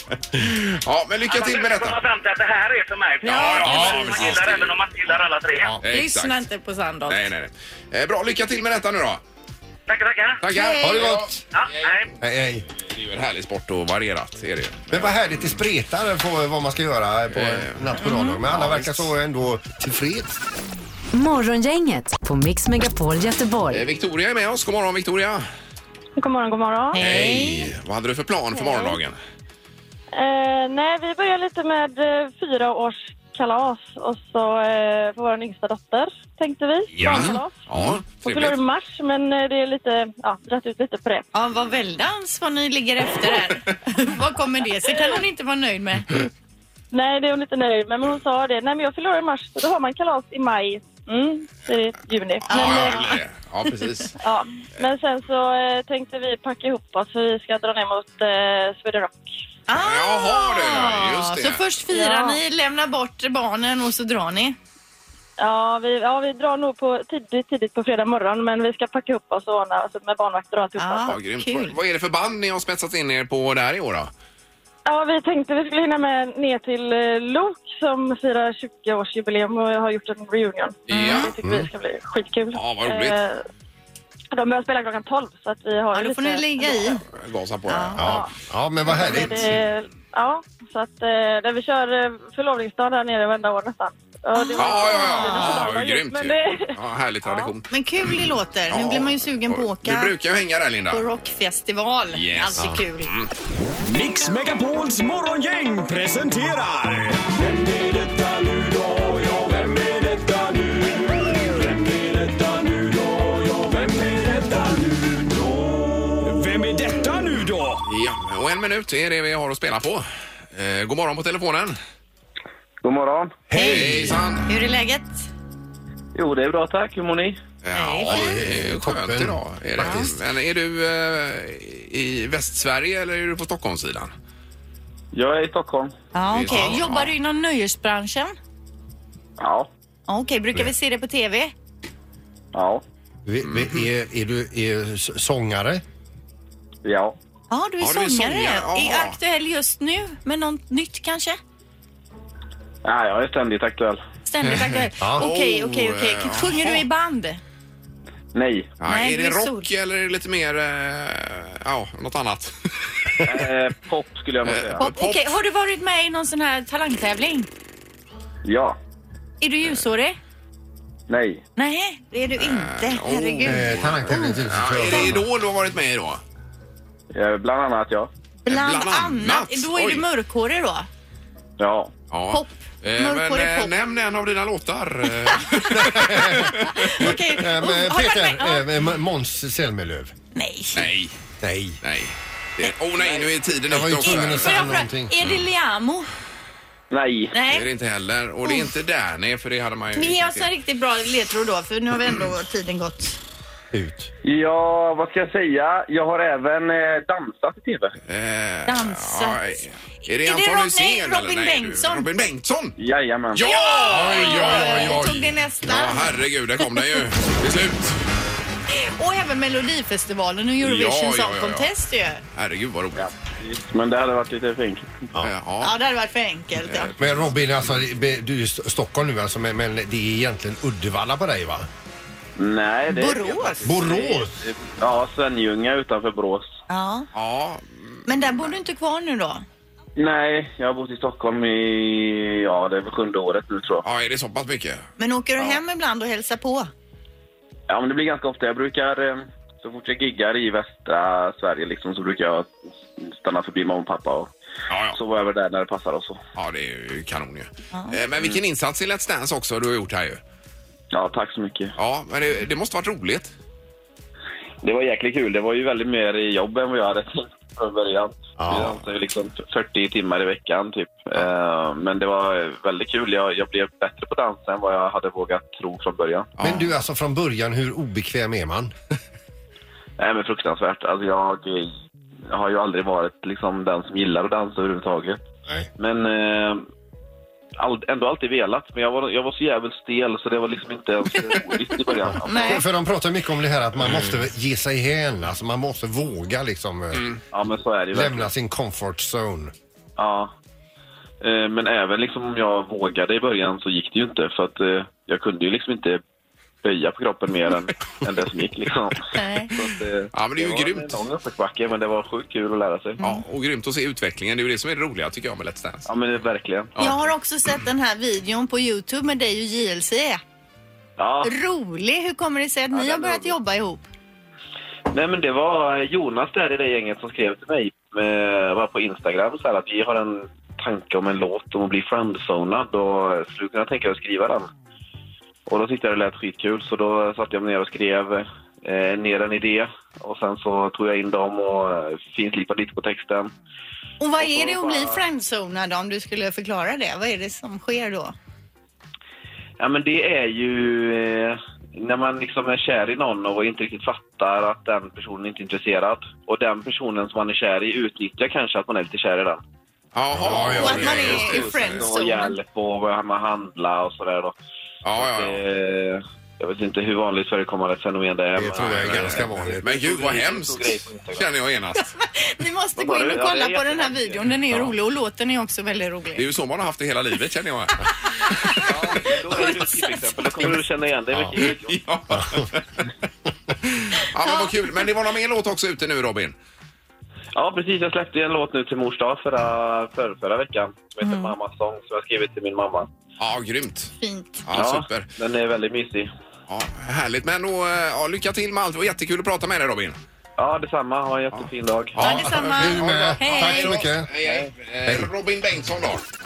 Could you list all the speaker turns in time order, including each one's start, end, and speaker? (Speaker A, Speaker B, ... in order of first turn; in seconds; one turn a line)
Speaker A: 0.3-2.0
Speaker B: 1.3-5.8
Speaker C: 3.2-4.1
Speaker A: 3.3-4.8
Speaker D: 3.9-4.2
Speaker A: 5.8-6.4
Speaker C: 5.9-7.3
Speaker A: 7.1-9.2
Speaker B: 9.9-10.4
Speaker A: 10.4-11.9
Speaker C: 10.5-11.1
Speaker D: 10.8-11.4
Speaker B: 11.5-12.1
Speaker D: 12.2-12.7
Speaker A: 12.9-15.5
Speaker D: 14.9-20.4
Speaker A: 17.3-19.1
Speaker C: 18.0-18.4
Speaker E: 21.1-23.9
Speaker A: 23.7-25.5
Speaker F: 26.2-27.0
Speaker C: 26.9-27.7
Speaker A: 27.0-29.2
Speaker F: 28.6-29.0
Speaker F: 30.1-41.2
Speaker D: 37.0-38.0
Speaker A: 37.0-38.6
Speaker C: 41.3-46.1
Speaker F: 46.9-53.1
Speaker A: 52.5-54.1
Speaker C: 52.5-53.1
Speaker F: 54.2-59.2
Speaker C: 59.7-64.6
Speaker A: 59.8-61.6
Speaker F: 61.9-62.4
Speaker F: 65.4-71.2
Speaker C: 70.8-71.8
Speaker A: 71.1-74.1
Speaker F: 74.9-83.4
Speaker A: 80.9-81.3
Speaker C: 80.9-81.3
Speaker D: 81.4-81.7
Speaker A: 82.5-83.2
Speaker F: 84.3-86.9
Speaker C: 85.9-87.0
Speaker A: 87.0-88.2
Speaker C: 87.7-88.0
Speaker D: 88.0-89.6
Speaker F: 88.0-88.3
Speaker F: 88.9-97.5
Speaker C: 94.3-95.7
Speaker A: 94.6-97.7
Speaker C: 97.7-100.1
Speaker A: 98.7-101.1
Speaker C: 100.9-103.1
Speaker A: 102.1-103.3
Speaker G: 103.8-117.8
Speaker A: 117.9-121.8
Speaker H: 122.8-123.4
Speaker D: 123.5-124.2
Speaker C: 123.5-125.3
Speaker A: 123.6-124.5
Speaker H: 126.2-127.4
Speaker A: 127.6-134.1
Speaker C: 127.7-128.3
Speaker D: 128.0-130.1
Speaker C: 129.8-130.1
Speaker H: 135.1-135.9
Speaker C: 136.1-138.4
Speaker A: 136.3-137.1
Speaker H: 139.4-139.7
Speaker C: 140.1-141.5
Speaker H: 142.5-142.8
Speaker D: 143.3-145.8
Speaker A: 143.4-143.8
Speaker H: 146.8-147.2
Speaker C: 147.5-151.4
Speaker A: 147.8-149.2
Speaker H: 152.8-154.0
Speaker C: 154.3-157.4
Speaker A: 154.4-156.8
Speaker D: 155.0-155.3
Speaker H: 158.3-158.7
Speaker A: 158.8-163.2
Speaker C: 158.8-159.7
Speaker H: 163.2-164.8
Speaker A: 164.4-165.3
Speaker C: 164.8-167.5
Speaker H: 168.4-168.8
Speaker C: 169.4-170.2
Speaker H: 171.1-171.4
Speaker C: 171.6-175.1
Speaker A: 172.4-176.2
Speaker D: 173.4-175.2
Speaker H: 177.1-178.1
Speaker C: 178.4-180.9
Speaker A: 178.5-180.1
Speaker H: 181.6-181.9
Speaker A: 182.1-187.2
Speaker C: 182.3-183.7
Speaker C: 185.3-188.7
Speaker D: 185.7-190.1
Speaker C: 190.3-190.9
Speaker A: 190.7-191.2
Speaker D: 191.4-191.8
Speaker A: 191.8-194.7
Speaker D: 193.7-195.1
Speaker C: 194.0-196.1
Speaker H: 196.9-197.3
Speaker C: 197.3-197.7
Speaker A: 197.5-200.5
Speaker C: 198.4-198.7
Speaker C: 200.0-203.2
Speaker D: 203.7-204.1
Speaker H: 204.2-208.0
Speaker A: 208.1-212.8
Speaker C: 208.7-209.6
Speaker C: 210.1-212.1
Speaker H: 212.8-214.1
Speaker A: 213.3-218.0
Speaker C: 213.5-216.2
Speaker D: 213.9-215.0
Speaker C: 218.7-222.2
Speaker A: 220.6-221.7
Speaker A: 222.3-223.1
Speaker H: 223.0-225.0
Speaker A: 225.2-225.8
Speaker C: 225.6-226.9
Speaker A: 226.6-227.4
Speaker D: 227.0-231.7
Speaker H: 232.4-236.6
Speaker C: 232.9-233.8
Speaker D: 233.6-234.4
Speaker C: 236.7-237.1
Speaker A: 237.1-238.6
Speaker C: 238.1-239.4
Speaker H: 240.0-243.8
Speaker A: 243.8-244.9
Speaker C: 245.0-246.7
Speaker H: 247.7-254.3
Speaker A: 254.7-255.0
Speaker H: 254.9-256.2
Speaker A: 256.4-260.2
Speaker C: 257.7-258.0
Speaker H: 260.9-261.8
Speaker A: 261.8-263.3
Speaker H: 264.6-276.3
Speaker D: 268.4-268.8
Speaker A: 276.4-276.7
Speaker D: 276.4-278.7
Speaker H: 280.0-281.7
Speaker H: 282.3-285.2
Speaker H: 285.8-286.7
Speaker H: 287.6-292.6
Speaker C: 291.1-292.6
Speaker D: 292.3-297.1
Speaker A: 296.9-297.2
Speaker H: 297.3-298.3
Speaker D: 297.9-299.5
Speaker H: 300.0-300.3
Speaker H: 301.2-306.0
Speaker H: 306.6-313.0
Speaker C: 309.1-309.6
Speaker A: 310.1-311.0
Speaker C: 313.0-313.2
Speaker A: 313.0-315.9
Speaker H: 315.9-316.8
Speaker A: 316.8-317.0
Speaker C: 316.8-320.2
Speaker H: 321.0-321.3
Speaker C: 321.2-323.8
Speaker H: 322.7-323.4
Speaker H: 324.9-334.5
Speaker H: 335.5-343.3
Speaker C: 344.0-348.1
Speaker H: 344.2-345.0
Speaker H: 349.6-359.4
Speaker A: 359.9-361.9
Speaker D: 360.1-361.1
Speaker H: 360.2-364.4
Speaker C: 360.6-362.4
Speaker A: 364.8-365.4
Speaker H: 365.0-371.3
Speaker D: 368.4-369.7
Speaker A: 368.6-371.9
Speaker C: 371.8-376.2
Speaker H: 372.8-374.3
Speaker A: 376.2-378.3
Speaker H: 378.5-381.8
Speaker C: 379.3-380.2
Speaker A: 381.4-382.6
Speaker D: 382.1-382.5
Speaker A: 383.8-386.4
Speaker H: 387.4-392.9
Speaker C: 391.0-391.3
Speaker A: 393.2-393.9
Speaker C: 394.0-394.5
Speaker A: 394.5-395.1
Speaker H: 394.6-396.1
Speaker A: 396.5-400.0
Speaker H: 400.4-402.0
Speaker A: 401.3-406.0
Speaker C: 402.0-403.8
Speaker D: 402.0-404.1
Speaker H: 404.2-404.5
Speaker D: 404.9-405.1